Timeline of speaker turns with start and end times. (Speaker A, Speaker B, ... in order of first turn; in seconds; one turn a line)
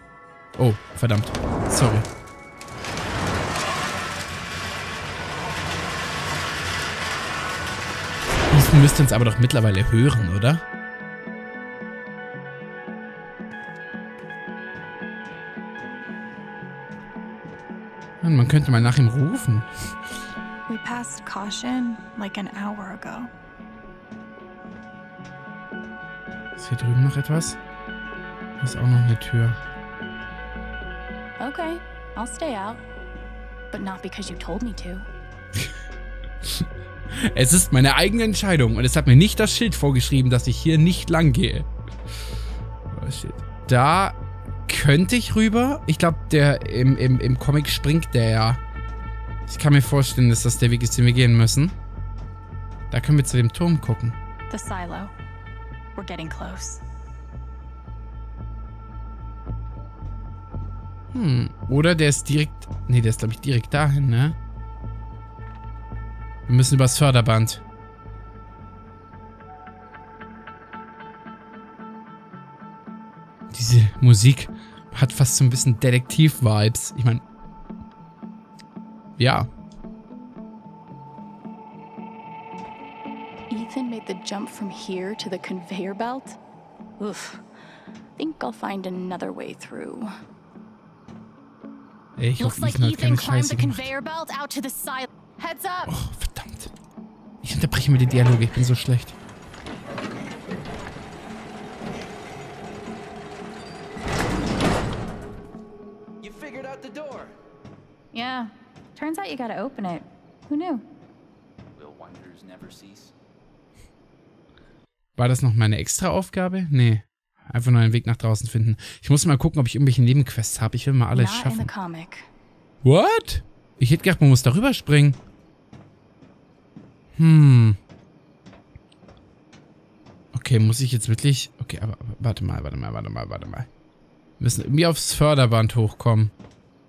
Speaker A: 0.6-2.0
Speaker A: 8.5-10.6
Speaker A: 18.2-19.9
Speaker B: 20.7-23.3
Speaker A: 26.6-27.6
Speaker A: 28.6-29.6
Speaker B: 31.4-32.8
Speaker B: 33.7-35.0
Speaker A: 36.4-41.7
Speaker A: 42.9-48.6
Speaker A: 49.5-51.7
Speaker A: 52.9-54.1
Speaker B: 54.5-55.1
Speaker B: 55.9-56.8
Speaker A: 61.1-64.4
Speaker A: 66.5-67.6
Speaker A: 73.5-77.2
Speaker A: 79.2-79.5
Speaker B: 83.5-86.4
Speaker B: 87.0-87.4
Speaker B: 88.2-90.1
Speaker A: 92.2-93.8
Speaker B: 92.4-95.9
Speaker A: 95.9-96.7
Speaker A: 97.4-99.1
Speaker C: 106.2-107.3
Speaker B: 108.1-110.8
Speaker C: 111.8-113.1
Speaker A: 115.2-121.7
Speaker B: 121.1-122.3
Speaker A: 122.8-125.2
Speaker A: 127.2-127.8
Speaker A: 130.3-133.7
Speaker A: 134.4-136.3